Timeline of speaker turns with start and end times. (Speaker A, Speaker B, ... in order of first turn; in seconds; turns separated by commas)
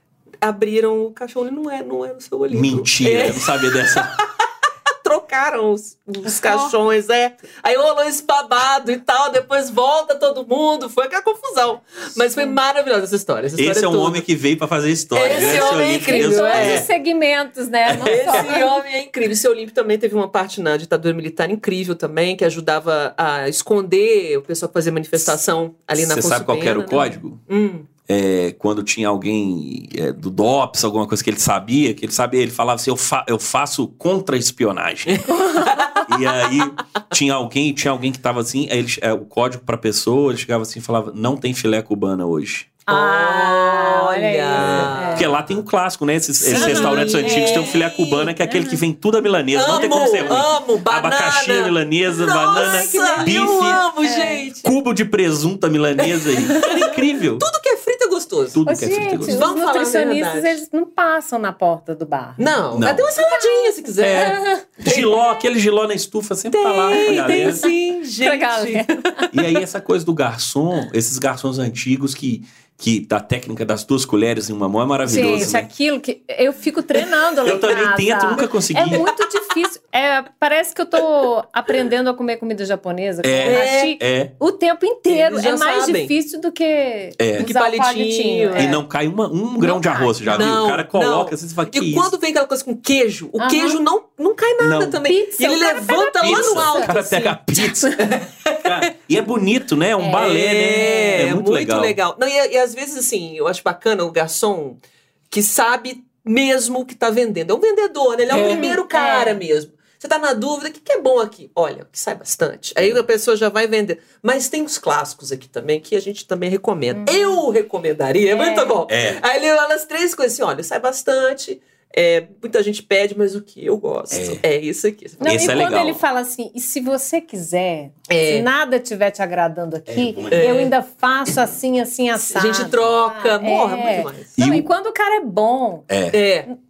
Speaker A: 0.4-4.3, Speaker B: 2.5-4.2, Speaker A: 5.0-14.2, Speaker C: 6.3-6.8, Speaker B: 13.6-16.9, Speaker A: 15.1-16.9, Speaker C: 15.2-18.8, Speaker B: 17.9-18.5, Speaker A: 18.0-27.9, Speaker B: 26.0-27.4, Speaker C: 26.9-27.2, Speaker B: 28.1-35.3, Speaker A: 35.1-36.0, Speaker C: 35.3-36.0, Speaker B: 36.0-42.7, Speaker C: 42.9-45.4, Speaker A: 42.9-45.4, Speaker B: 44.5-53.8, Speaker A: 46.4-48.3, Speaker C: 46.5-47.9, Speaker C: 48.4-48.8, Speaker A: 49.5-54.7, Speaker C: 49.7-50.5, Speaker C: 52.5-54.5, Speaker B: 54.6-57.5, Speaker A: 56.0-58.6, Speaker B: 58.5-59.5, Speaker C: 58.6-62.5, Speaker A: 59.2-60.6, Speaker A: 62.4-65.2, Speaker B: 62.7-63.1, Speaker C: 63.2-64.7, Speaker B: 64.0-67.6, Speaker A: 66.5-69.3, Speaker C: 67.0-69.2, Speaker B: 69.3-75.7, Speaker C: 75.1-88.8, Speaker B: 77.4-79.1, Speaker B: 83.2-84.3, Speaker A: 83.5-84.0, Speaker A: 85.1-86.1, Speaker B: 87.2-87.5, Speaker A: 87.4-88.8, Speaker B: 88.5-92.1, Speaker C: 89.6-90.6, Speaker A: 90.3-97.4, Speaker C: 93.4-93.8, Speaker B: 94.6-95.0, Speaker C: 95.0-97.0, Speaker B: 96.2-98.0, Speaker C: 97.6-98.1, Speaker A: 98.0-98.8, Speaker B: 98.6-102.0, Speaker C: 100.0-101.3, Speaker A: 100.1-104.8, Speaker A: 105.3-125.6, Speaker B: 108.3-108.7, Speaker C: 108.3-109.4, Speaker C: 116.9-117.4, Speaker C: 118.3-118.8, Speaker B: 118.9-119.2, Speaker B: 124.1-124.4, Speaker C: 125.2-135.9, Speaker B: 125.2-126.0, Speaker A: 128.1-128.5, Speaker B: 129.9-130.6, Speaker A: 130.3-130.7, Speaker A: 132.2-134.3, Speaker B: 134.4-134.7, Speaker B: 135.9-136.2, Speaker A: 136.1-136.5